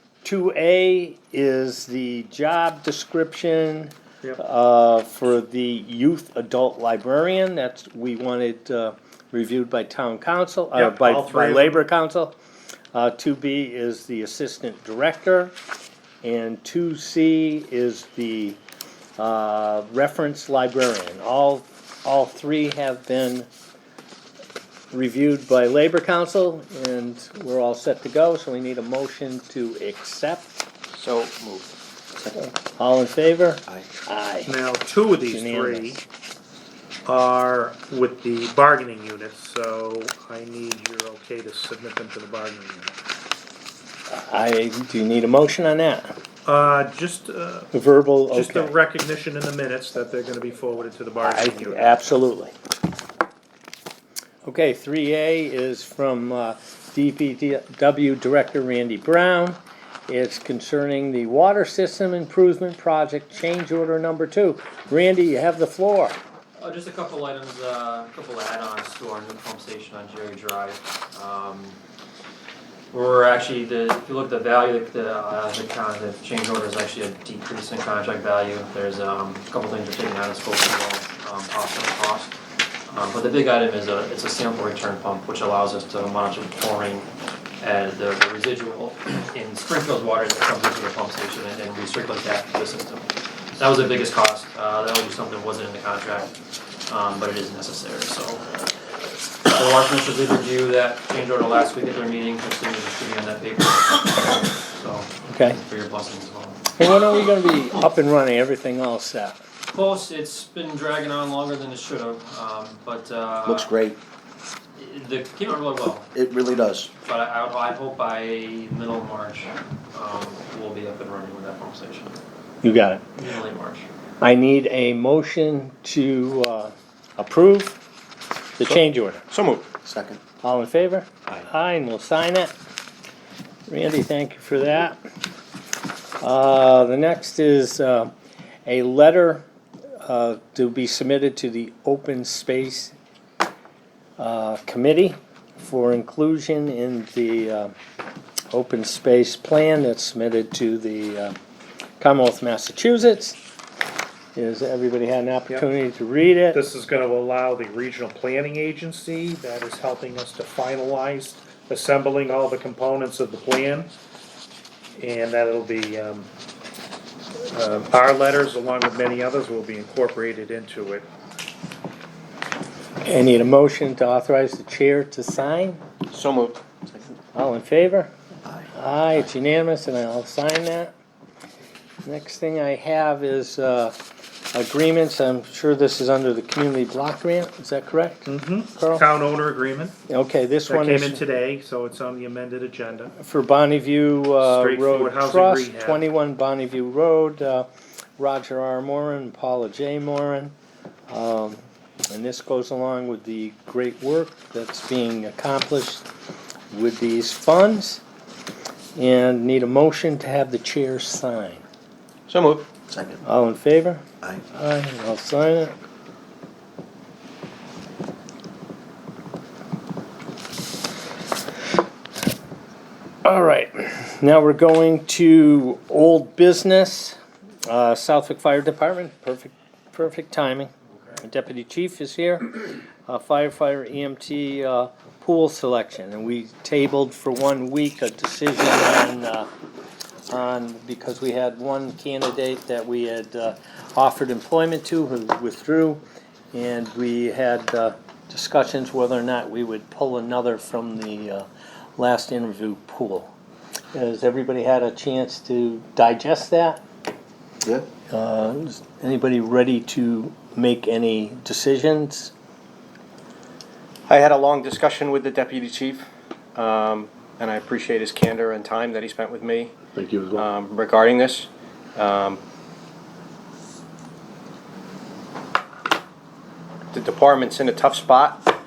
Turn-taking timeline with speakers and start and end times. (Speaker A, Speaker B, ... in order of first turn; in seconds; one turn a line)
Speaker A: 0.2-12.3
Speaker B: 10.8-11.8
Speaker A: 12.9-15.5
Speaker A: 16.2-18.6
Speaker A: 19.2-23.5
Speaker A: 24.9-30.5
Speaker C: 31.0-31.7
Speaker A: 32.4-34.6
Speaker B: 34.5-36.0
Speaker A: 35.3-36.0
Speaker B: 37.0-42.9
Speaker A: 44.1-46.1
Speaker B: 46.4-47.7
Speaker A: 47.7-48.7
Speaker B: 48.3-51.9
Speaker A: 51.2-52.5
Speaker A: 54.4-66.2
Speaker D: 66.6-71.8
Speaker D: 72.9-87.1
Speaker D: 87.6-96.3
Speaker D: 96.9-98.4
Speaker D: 99.5-106.6
Speaker A: 105.3-105.6
Speaker A: 106.8-109.4
Speaker D: 109.7-113.7
Speaker E: 113.4-114.0
Speaker D: 114.8-122.2
Speaker E: 116.1-116.9
Speaker A: 122.6-123.0
Speaker D: 123.2-123.9
Speaker A: 124.2-127.8
Speaker A: 128.6-129.2
Speaker C: 129.3-129.7
Speaker E: 129.8-130.2
Speaker A: 130.4-132.5
Speaker A: 133.7-135.0
Speaker A: 136.2-138.1
Speaker A: 138.7-139.4
Speaker A: 140.0-142.9
Speaker A: 144.2-147.7
Speaker A: 148.5-151.3
Speaker A: 152.0-153.4
Speaker A: 154.3-156.6
Speaker B: 156.5-163.9
Speaker B: 165.0-166.3
Speaker B: 167.5-171.1
Speaker A: 173.0-175.8
Speaker C: 176.1-176.6
Speaker A: 177.3-178.1
Speaker A: 178.7-180.9
Speaker A: 182.0-183.9
Speaker A: 184.5-189.0
Speaker B: 188.2-189.9
Speaker A: 190.1-191.2
Speaker B: 190.7-193.1
Speaker A: 193.2-200.5
Speaker B: 194.4-196.0
Speaker A: 201.1-206.1
Speaker A: 206.7-208.0
Speaker A: 208.9-211.6
Speaker C: 212.3-212.7
Speaker E: 212.9-213.2
Speaker A: 213.2-214.0
Speaker A: 214.5-215.7
Speaker A: 223.2-239.5
Speaker A: 240.2-246.0
Speaker A: 246.5-251.4
Speaker A: 252.0-253.3
Speaker A: 253.9-256.8
Speaker A: 258.1-262.3
Speaker C: 264.1-269.8
Speaker E: 270.0-270.4
Speaker C: 270.3-272.4
Speaker C: 276.9-278.5